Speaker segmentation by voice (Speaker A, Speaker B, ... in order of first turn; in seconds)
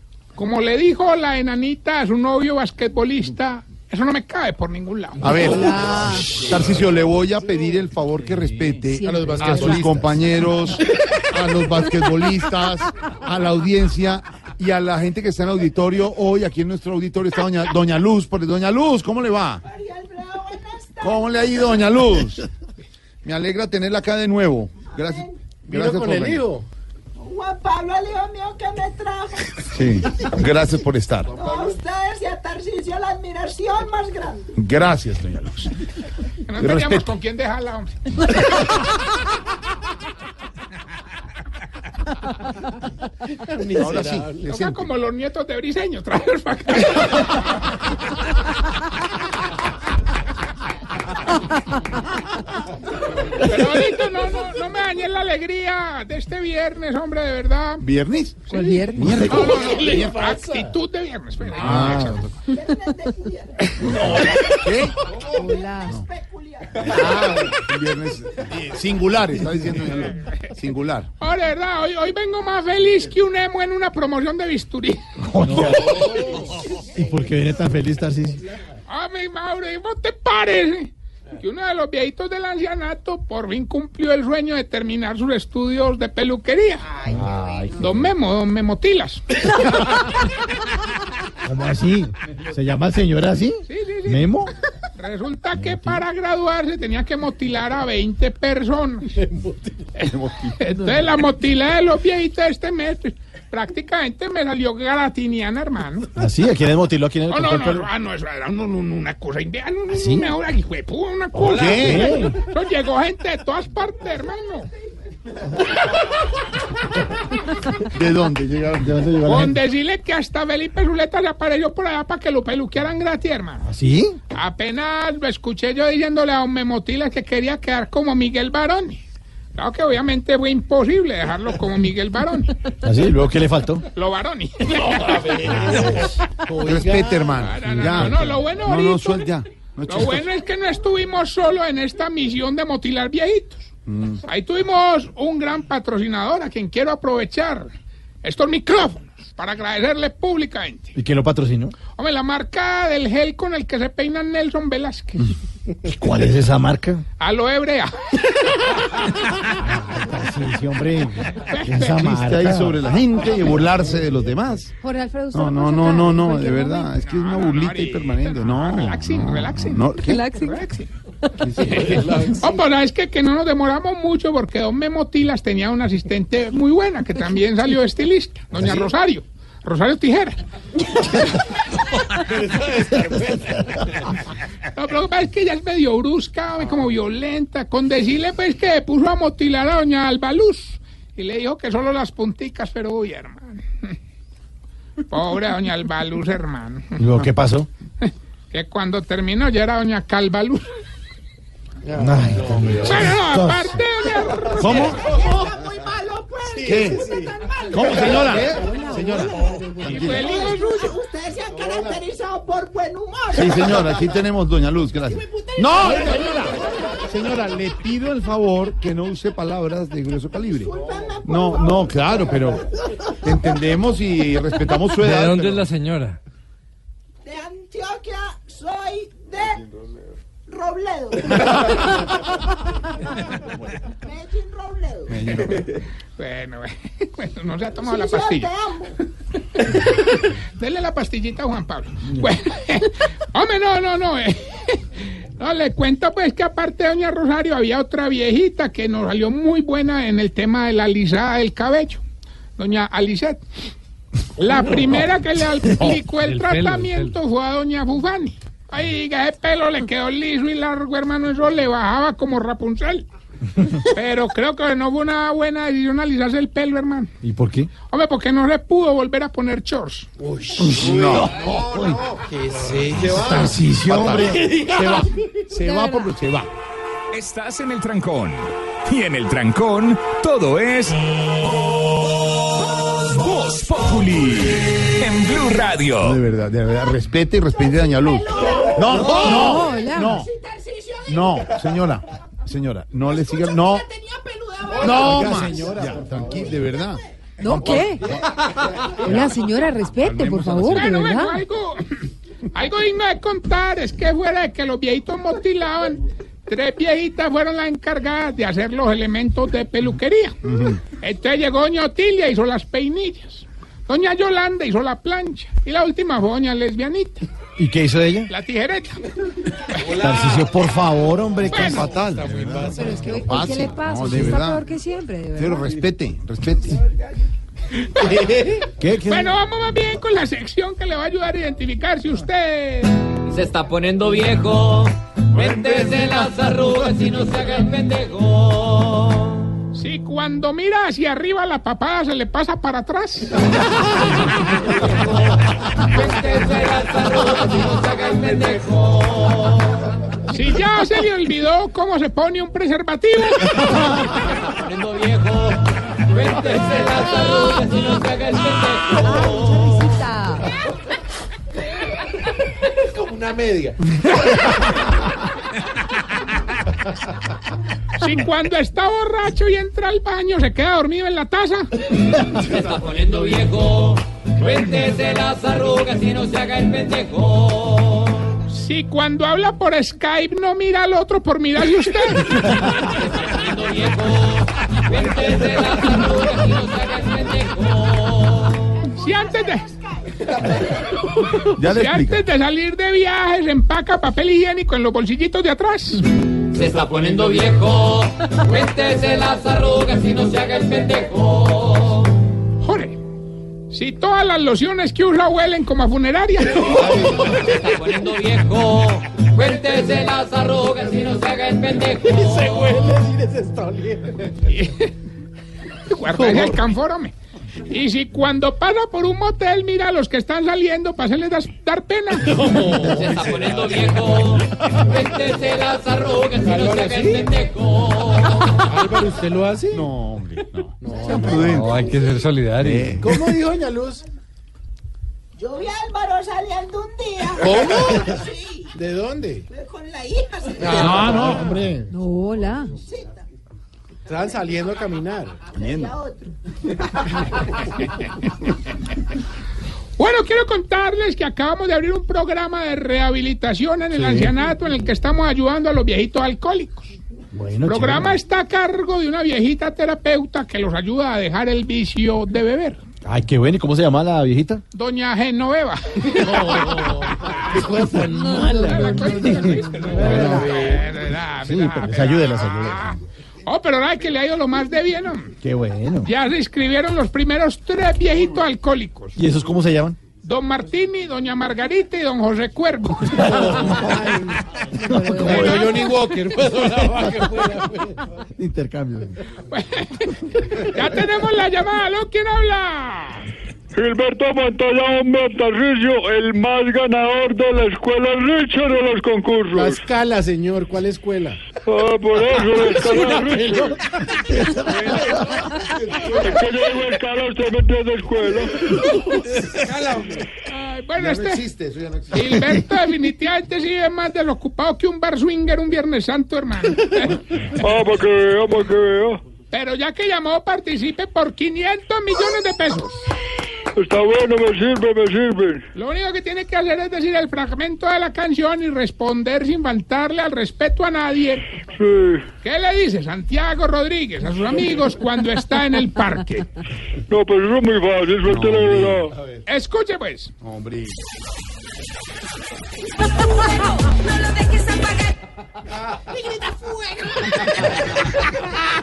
Speaker A: 0.3-5.2, 36.5-38.0, 44.5-47.5, 53.3-57.9, 59.2-62.3, 71.2-76.0, 78.9-87.1, 87.8-89.4, 93.7-94.3, 95.0-99.1, 100.6-106.1, 107.3-114.7, 119.2-123.6, 124.3-129.0, 129.6-132.5, 133.9-135.8, 137.4-143.7, 144.2-147.7, 148.2-150.9, 152.0-155.2, 157.2-157.9, 161.5-162.3, 166.9-170.9, 171.7-180.4, 184.8-193.9, 195.1-197.0, 198.0-200.7, 202.9-204.9, 209.8-210.7, 236.2-238.5, 240.6-244.4, 245.4-252.0, 252.6-253.4, 254.4-263.1, 263.9-267.1, 267.9-270.1, 300.7-301.8, 302.5-310.4, 311.0-317.2, 318.3-319.0, 321.5-321.9, 328.0-328.4, 329.1-333.0, 339.8-343.3, 350.3-353.6, 368.0-371.7, 378.5-382.6, 389.0-389.7, 391.7-396.1, 402.6-403.0, 403.7-407.2, 415.9-417.1, 417.7-422.3, 450.0-456.9, 457.6-462.8, 464.7-467.1, 468.6-475.3, 476.1-479.1, 480.2-483.4, 489.5-493.2, 510.5-511.4, 512.1-517.2, 519.5-523.0, 525.8-531.4, 532.4-536.5, 539.5-540.3
Speaker B: 5.2-19.6, 21.0-22.4, 23.2-26.5, 29.7-31.5, 34.6-35.7, 36.6-37.1, 43.8-44.9, 57.8-58.4, 58.9-60.1, 61.5-62.3, 63.8-65.0, 66.8-71.1, 75.2-76.1, 100.1-100.6, 111.4-112.0, 117.9-118.9, 136.6-140.3, 143.9-144.2, 162.0-164.7, 165.3-170.2, 204.6-205.0, 206.6-207.1, 207.7-208.5, 213.3-216.5, 217.1-222.7, 223.2-225.7, 235.1-235.7, 270.6-271.4, 272.9-274.6, 286.0-290.3, 291.1-293.9, 294.8-298.4, 300.0-300.9, 310.4-310.8, 321.5-324.6, 325.4-326.8, 335.4-336.1, 391.6-392.2, 429.7-431.9, 432.6-433.2, 441.1-441.5, 445.6-445.9, 511.0-512.3, 538.2-539.0, 540.4-541.0
Speaker C: 5.3-6.3, 8.9-9.8, 58.5-59.5, 65.4-65.9, 164.8-166.9, 170.0-170.8, 275.6-276.1, 289.2-290.2, 297.4-298.0, 299.1-301.4, 322.8-325.7, 359.0-360.4, 441.9-442.7
Speaker D: 9.0-10.3, 25.7-26.6, 43.4-44.5, 59.2-60.7, 61.6-61.9, 99.2-99.5, 135.0-138.1, 171.5-172.7, 182.3-183.8, 201.8-203.1, 206.5-209.9, 270.2-276.5, 294.8-296.5, 319.9-320.5, 321.8-323.6, 328.0-328.6, 362.8-363.8, 406.8-407.5, 412.0-414.4, 416.2-416.6, 422.2-424.0, 426.4-427.5, 428.7-429.9, 430.8-431.7, 433.0-434.0, 437.4-438.2, 438.7-439.5, 440.6-441.9, 444.1-445.4, 466.2-470.9, 483.4-484.3, 484.9-488.0, 499.5-501.4, 502.3-503.9, 504.6-505.2, 509.6-510.2
Speaker E: 19.6-21.8, 24.9-25.3, 27.2-30.3, 31.2-34.5, 62.4-67.3, 204.0-214.0, 215.1-217.4, 220.6-222.3, 223.1-223.5, 227.2-229.6, 230.5-232.1, 234.0-235.5, 237.8-238.9, 287.5-291.9, 293.0-295.8, 431.3-431.9, 435.4-438.7, 439.5-441.4, 442.7-443.2, 445.5-446.7, 544.4-545.0, 546.1-547.8
Speaker F: 77.0-78.4, 87.1-88.1, 91.5-94.5, 95.6-96.0, 106.2-107.9, 109.9-110.3, 111.7-112.3, 118.8-119.6, 123.6-124.2, 132.8-133.8, 150.9-151.8, 155.9-157.1, 159.6-162.8, 197.0-197.7, 202.0-203.8, 267.2-267.7, 271.4-271.9, 273.1-274.4, 295.1-295.9, 317.6-318.3, 320.0-321.9, 328.8-329.4, 453.9-454.4, 457.3-458.2, 463.1-464.6, 469.0-470.4, 471.4-473.0, 475.4-476.1, 479.2-480.0, 483.2-483.7, 484.9-485.7, 488.4-489.2
Speaker G: 224.9-226.2, 255.8-257.1, 431.5-433.0
Speaker H: 277.1-281.0, 283.1-286.2
Speaker I: 333.3-339.3, 344.7-345.4, 345.9-349.8, 354.6-359.9, 372.4-378.3, 383.0-388.7, 396.5-402.1, 407.6-412.8, 422.8-428.6
Speaker J: 493.8-499.8, 501.7-503.6, 506.2-508.6, 517.6-519.2, 523.8-525.6, 531.8-532.3, 537.1-539.1